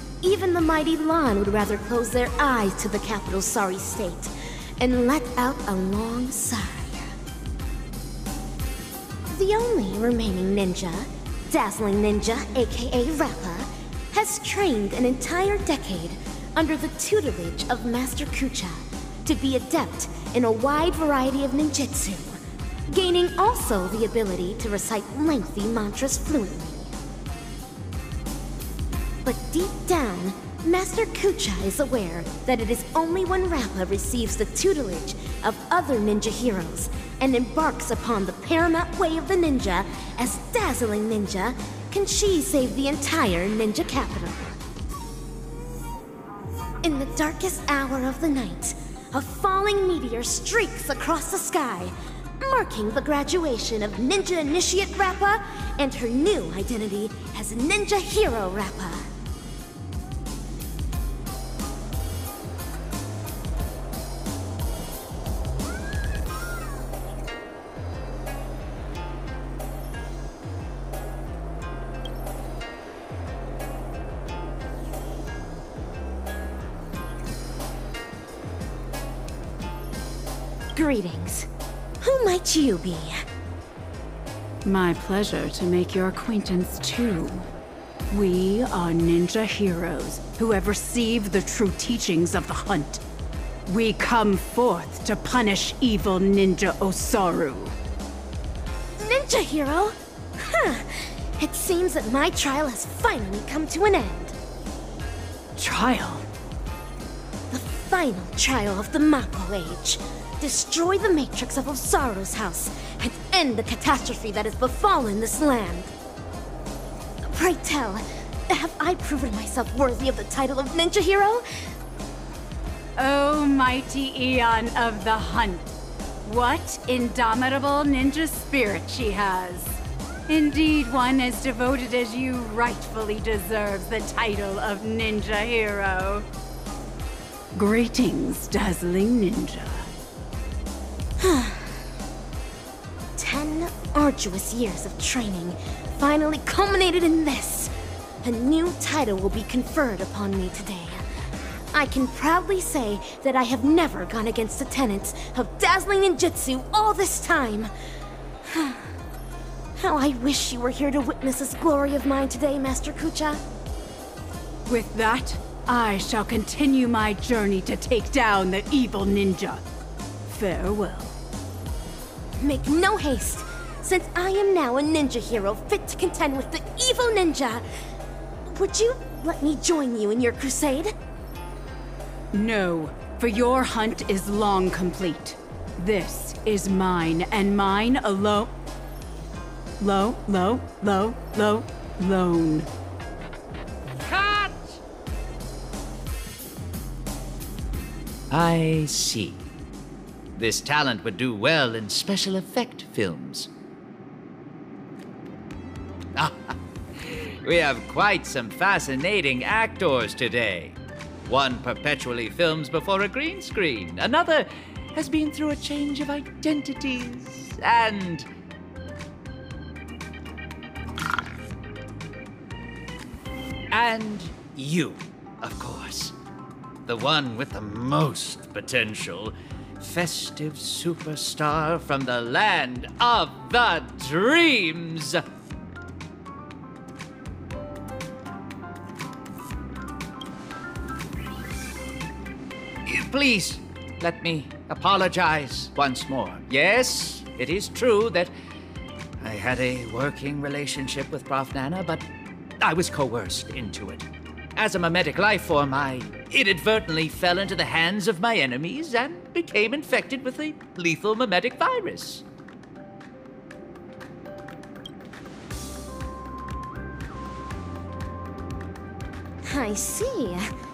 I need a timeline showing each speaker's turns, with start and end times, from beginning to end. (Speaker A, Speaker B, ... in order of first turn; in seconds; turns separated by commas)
Speaker A: 0.2-7.1, Speaker A: 9.3-22.4, Speaker A: 22.9-26.9, Speaker A: 29.2-44.6, Speaker A: 46.8-59.0, Speaker A: 80.8-81.5, Speaker A: 82.0-83.2, Speaker B: 84.6-87.4, Speaker B: 88.1-93.0, Speaker B: 93.7-97.7, Speaker A: 99.0-104.3, Speaker B: 105.6-106.2, Speaker A: 107.5-115.9, Speaker A: 117.3-121.4, Speaker B: 123.0-136.2, Speaker B: 137.5-139.9, Speaker A: 141.2-141.8, Speaker A: 143.2-147.7, Speaker A: 148.2-151.0, Speaker A: 151.7-157.7, Speaker A: 158.5-158.9, Speaker A: 159.8-163.4, Speaker B: 164.7-169.6, Speaker B: 170.2-171.1, Speaker A: 172.4-177.7, Speaker A: 178.5-180.9, Speaker B: 182.3-188.5, Speaker B: 189.8-192.7, Speaker C: 194.0-194.8, Speaker C: 198.3-199.4, Speaker C: 200.4-203.5, Speaker C: 206.2-218.3, Speaker C: 223.7-226.1, Speaker C: 226.9-235.2, Speaker C: 242.9-248.3, Speaker C: 249.2-252.0, Speaker C: 252.6-262.2, Speaker A: 269.4-270.5